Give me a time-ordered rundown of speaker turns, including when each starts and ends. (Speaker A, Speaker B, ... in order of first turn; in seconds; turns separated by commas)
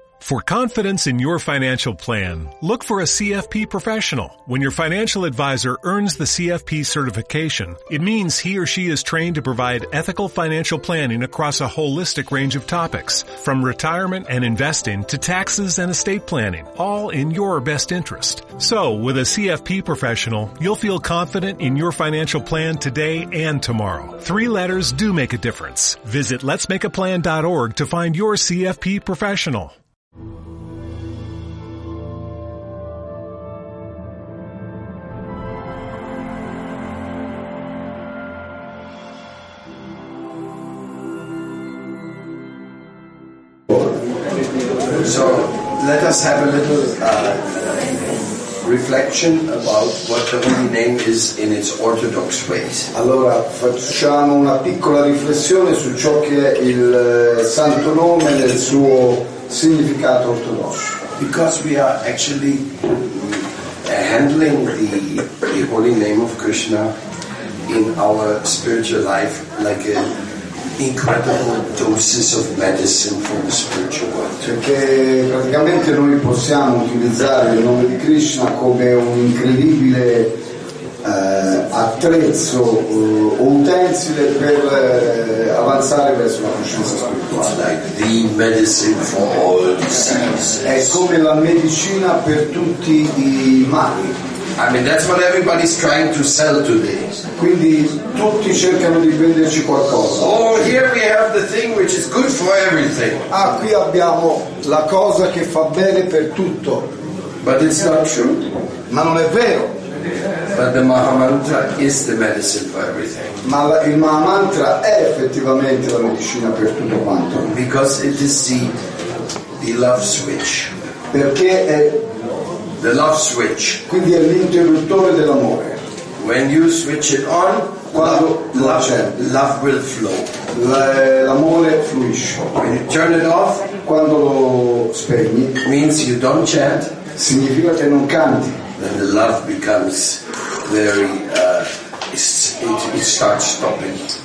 Speaker A: 0.2-29.7, Speaker B: 45.0-52.9, Speaker C: 52.9-61.0, Speaker B: 61.2-66.9, Speaker B: 67.7-70.1, Speaker B: 70.8-74.5, Speaker C: 74.4-80.3, Speaker C: 81.0-87.5, Speaker B: 87.4-91.0, Speaker C: 90.6-94.2, Speaker B: 94.6-97.2, Speaker C: 97.4-100.5, Speaker B: 100.1-103.3, Speaker C: 103.3-106.9, Speaker B: 107.4-108.5, Speaker C: 108.9-109.7, Speaker B: 110.5-113.3, Speaker C: 113.4-117.5, Speaker B: 117.5-118.7, Speaker B: 119.6-120.7, Speaker C: 121.1-122.2, Speaker B: 122.8-123.8, Speaker C: 123.9-125.8, Speaker B: 126.2-130.3, Speaker C: 127.9-129.2, Speaker C: 130.5-132.6, Speaker B: 132.6-133.7, Speaker C: 133.8-135.6, Speaker B: 135.6-136.9, Speaker C: 137.2-138.6, Speaker B: 138.8-144.1